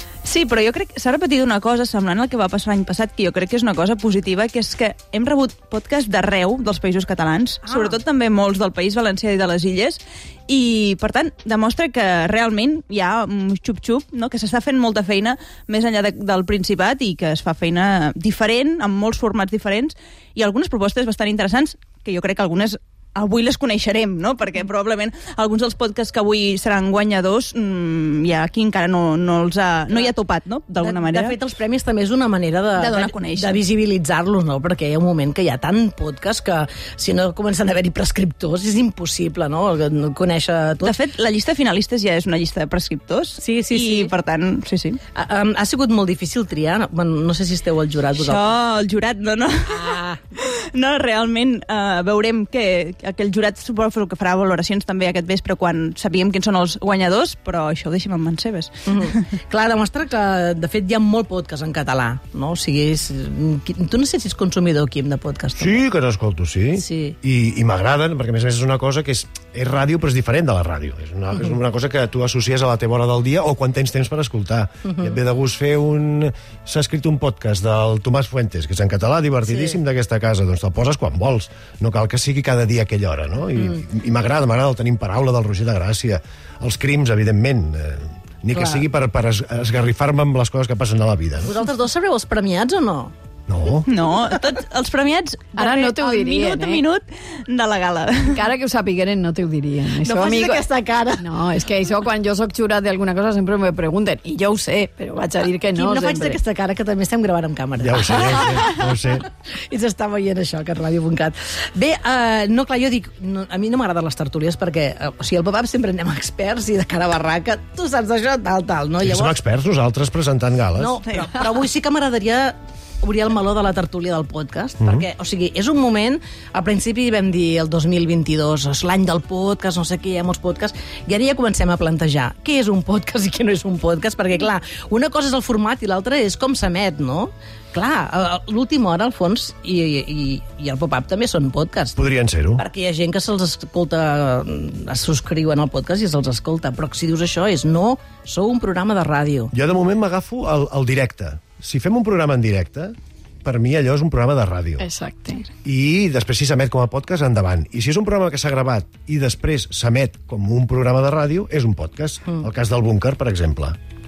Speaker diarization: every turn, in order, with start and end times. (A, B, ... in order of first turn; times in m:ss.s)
0:00.2-0:31.4 A
0:07.7-0:08.0 B
0:30.8-0:40.9 B
0:32.8-0:33.6 A
0:40.8-0:45.0 A
0:43.4-0:44.1 B
0:45.1-0:48.5 B
0:48.2-0:59.2 A
0:49.7-0:50.2 B
0:58.9-1:05.8 B
1:05.6-1:31.6 C
1:06.8-1:07.2 B
1:19.5-1:19.8 B
1:28.5-1:28.8 B
1:31.4-1:33.1 B
1:33.5-1:33.9 C
1:33.9-1:38.5 A
1:35.6-1:36.8 D
1:38.3-1:40.6 D
1:40.0-1:41.3 B
1:41.2-1:46.4 D
1:45.7-1:59.3 B
1:47.8-1:49.2 C
1:59.0-2:01.0 C
2:00.8-2:22.0 B
2:01.0-2:01.4 A
2:22.0-2:22.6 C
2:22.6-2:29.5 B
2:29.5-2:34.8 C
2:34.8-2:35.5 D
2:35.6-2:43.8 C